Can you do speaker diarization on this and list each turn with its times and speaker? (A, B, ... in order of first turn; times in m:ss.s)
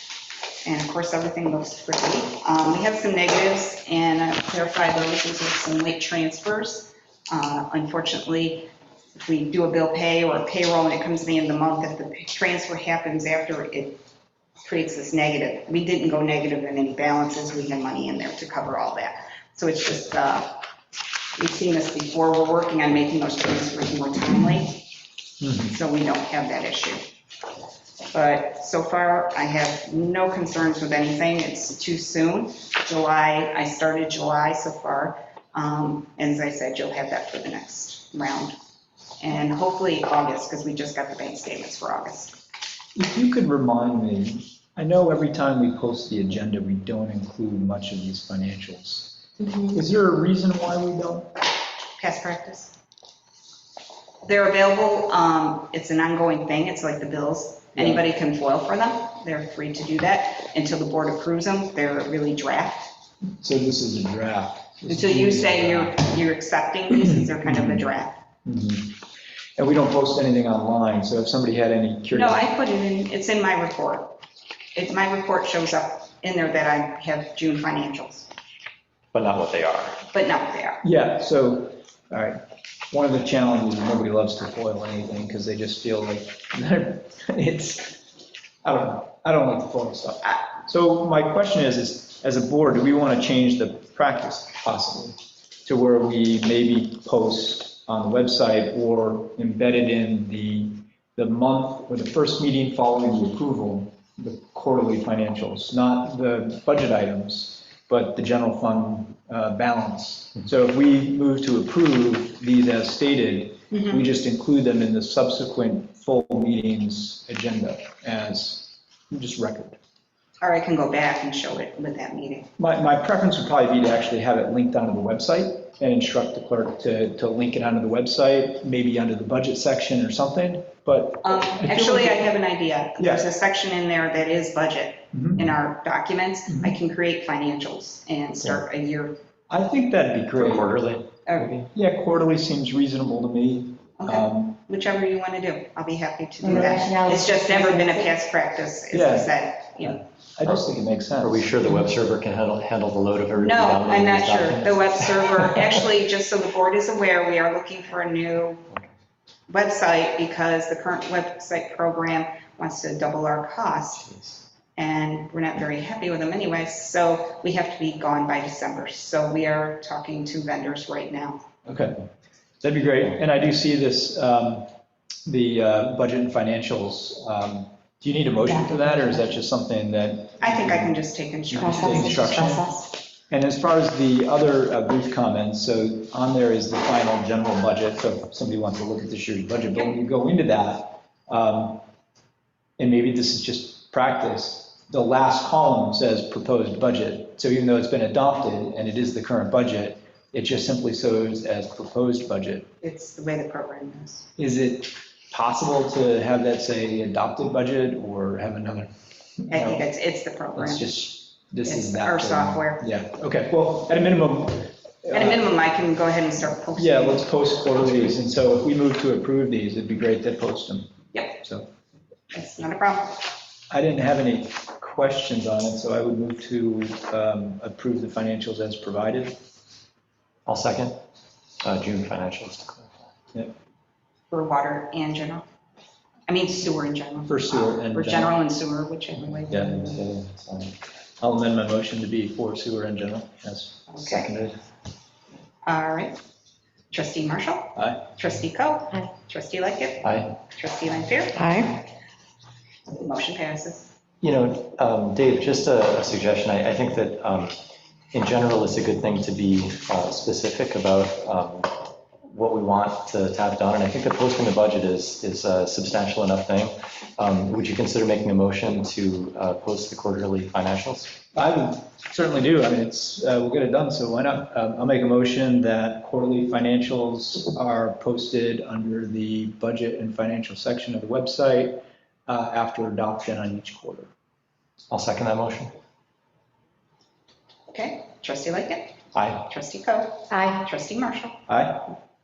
0:00.6-0:14.0 A
0:14.6-0:20.6 A
0:21.4-0:24.8 A
0:25.4-0:25.8 B
0:25.6-0:27.0 A
0:28.1-0:38.5 A
0:39.2-0:42.4 A
0:43.0-0:51.3 B
0:52.0-0:52.7 A
0:54.2-1:02.9 A
0:57.8-0:58.0 B
1:03.4-1:06.0 B
1:04.9-1:08.2 A
1:07.4-1:07.8 B
1:08.5-1:09.0 B
1:09.6-1:12.4 B
1:12.1-1:14.2 A
1:14.8-1:18.3 A
1:19.1-1:20.0 C
1:20.1-1:20.8 A
1:20.8-1:22.4 B
1:22.9-1:28.0 B
1:28.6-1:59.8 B
1:53.7-1:54.1 A
2:00.4-2:02.5 A
2:02.6-2:12.3 B
2:11.2-2:19.2 A
2:13.0-2:13.3 B
2:15.1-2:15.6 B
2:16.5-2:16.7 B
2:19.5-2:20.7 B
2:20.4-2:21.7 C
2:21.3-2:21.5 A
2:21.7-2:24.6 B
2:24.0-2:30.0 A
2:26.4-2:28.0 D
2:28.9-2:31.9 B
2:31.2-2:35.8 C
2:33.4-2:38.7 A
2:39.5-2:44.2 A
2:44.8-2:51.4 A
2:51.7-2:52.0 B
2:52.6-2:54.7 B
2:55.3-3:11.8 B
3:00.4-3:02.8 A
3:01.6-3:02.7 D
3:12.8-3:22.7 B
3:22.8-3:24.3 A
3:24.4-3:29.8 B
3:29.5-3:30.9 A
3:30.6-3:35.5 B
3:31.6-3:32.8 A
3:35.1-3:37.4 A
3:36.8-3:41.7 B
3:42.3-3:43.2 A
3:43.7-3:49.4 B
3:50.5-3:51.0 C
3:51.6-3:53.0 C
3:54.3-3:55.5 A
3:56.3-4:00.0 A
3:57.3-3:58.4 B
3:59.5-3:59.8 B
3:59.5-4:00.7 C
4:01.2-4:04.5 B
4:03.9-4:04.3 A
4:05.6-4:06.2 A
4:06.9-4:11.5 A
4:07.8-4:08.0 B
4:10.0-4:10.3 C
4:11.4-4:11.8 D
4:12.9-4:13.9 A
4:14.2-4:17.6 C
4:18.1-4:31.1 C
4:31.4-4:44.1 B
4:44.9-4:45.7 C
4:47.7-4:51.4 A
4:50.3-4:50.6 D
4:51.5-4:51.8 B